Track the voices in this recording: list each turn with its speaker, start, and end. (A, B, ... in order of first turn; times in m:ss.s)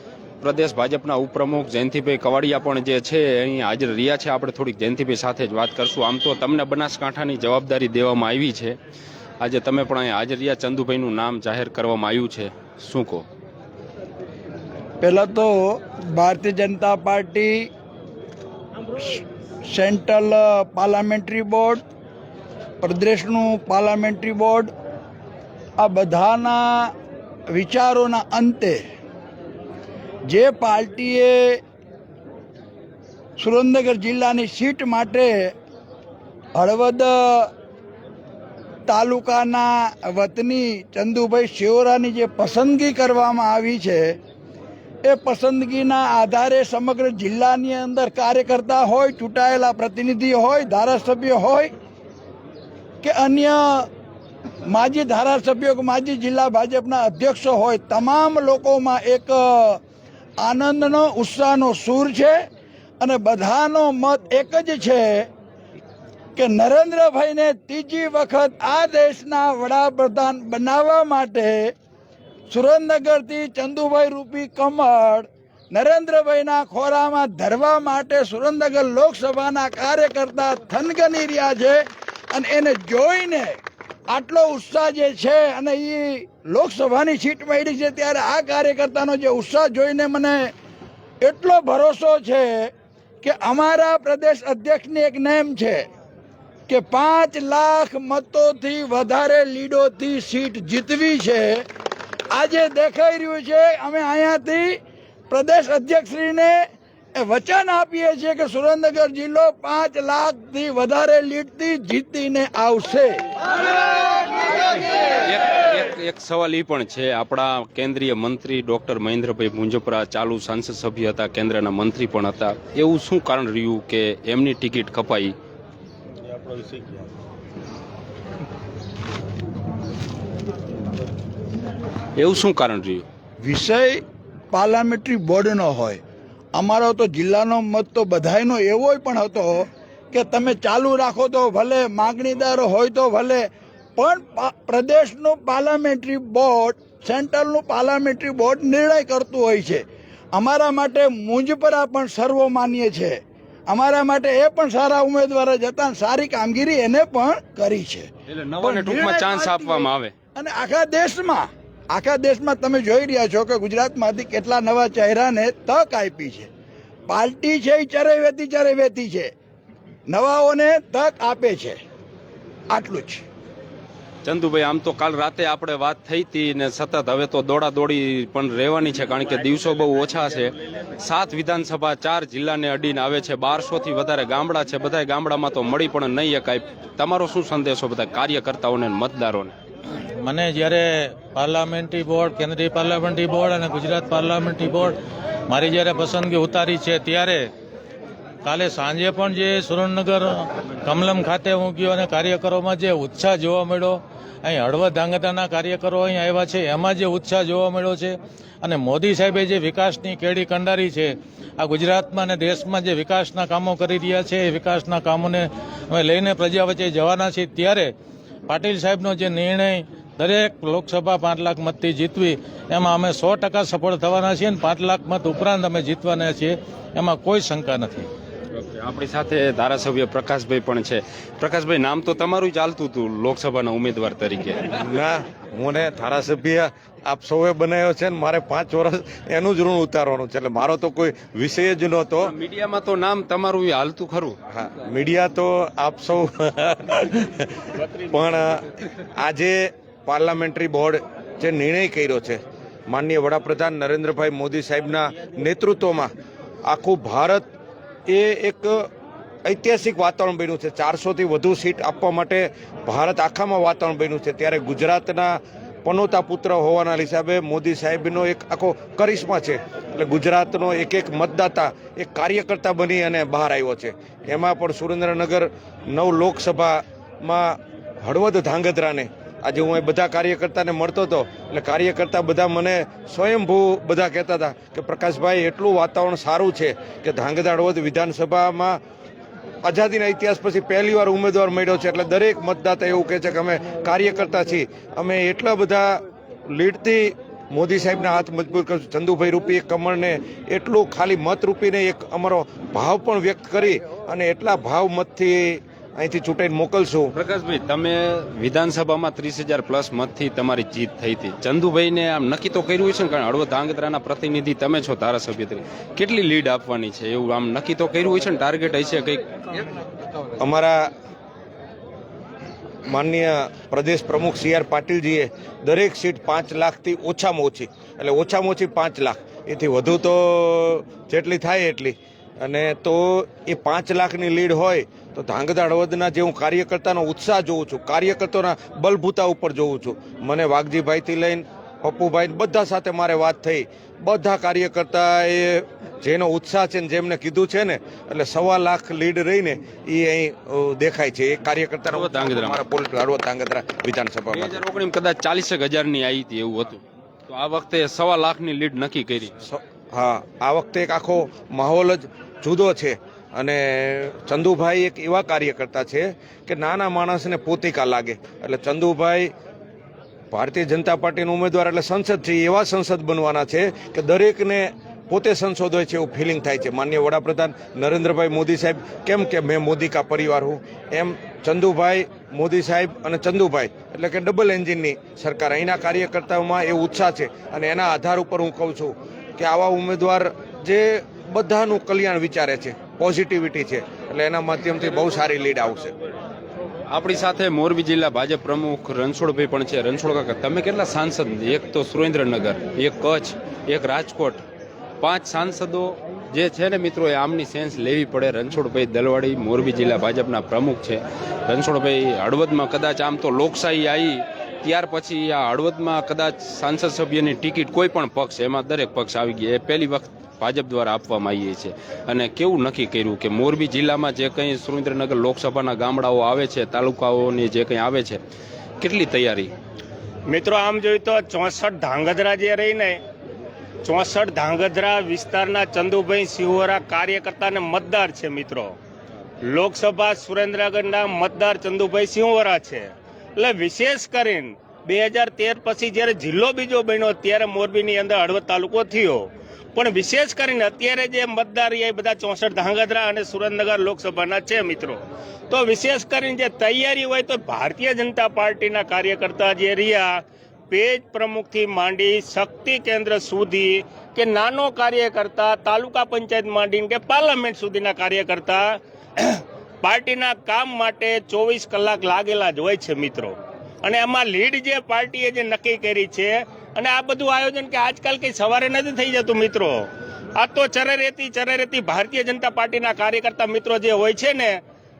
0:00.4-0:08.8 A
0:09.4-0:13.3 A
0:15.0-0:17.7 B
0:19.0-0:21.8 B
0:22.8-0:24.7 B
0:25.8-0:26.9 B
0:27.5-0:28.8 B
0:30.3-0:31.6 B
0:33.4-0:35.5 B
0:36.6-0:37.5 B
0:38.9-0:44.2 B
0:45.0-0:51.7 B
0:53.0-0:53.9 B
0:54.7-0:59.8 B
1:00.4-1:02.4 B
1:03.0-1:05.3 B
1:06.4-1:11.7 B
1:12.5-1:30.5 B
1:31.2-1:35.8 B
1:36.7-1:41.6 B
1:42.3-1:46.6 B
1:47.2-1:53.2 B
1:55.2-2:05.3 A
2:06.3-2:07.0 C
2:12.2-2:13.0 A
2:13.4-2:14.0 B
2:14.5-2:16.0 B
2:16.6-2:23.4 B
2:24.0-2:38.1 B
2:38.3-2:40.1 A
2:38.6-2:46.5 B
2:47.1-2:49.3 B
2:50.1-2:51.8 B
2:52.7-2:53.2 B
2:54.2-3:09.6 A
3:10.2-3:15.0 D
3:15.5-3:17.5 D
3:18.4-3:37.9 D
3:38.5-3:48.1 D
3:48.5-3:54.6 A
3:54.8-4:02.3 E
4:02.2-4:04.4 A
4:04.5-4:16.1 E
4:07.7-4:08.2 C
4:16.6-4:17.5 E
4:18.1-4:18.8 E
4:19.4-4:48.8 E
4:49.6-5:07.1 E
5:07.1-5:19.2 A
5:20.4-5:20.8 E
5:22.8-5:54.6 E
5:51.9-5:52.6 A
5:54.3-5:59.4 A
5:59.4-6:09.3 E
6:10.3-6:35.9 E
6:36.9-6:44.4 A
6:45.0-7:08.2 A
7:08.8-7:09.5 A
7:10.3-7:13.0 C
7:13.8-7:18.8 C
7:19.4-8:04.6 C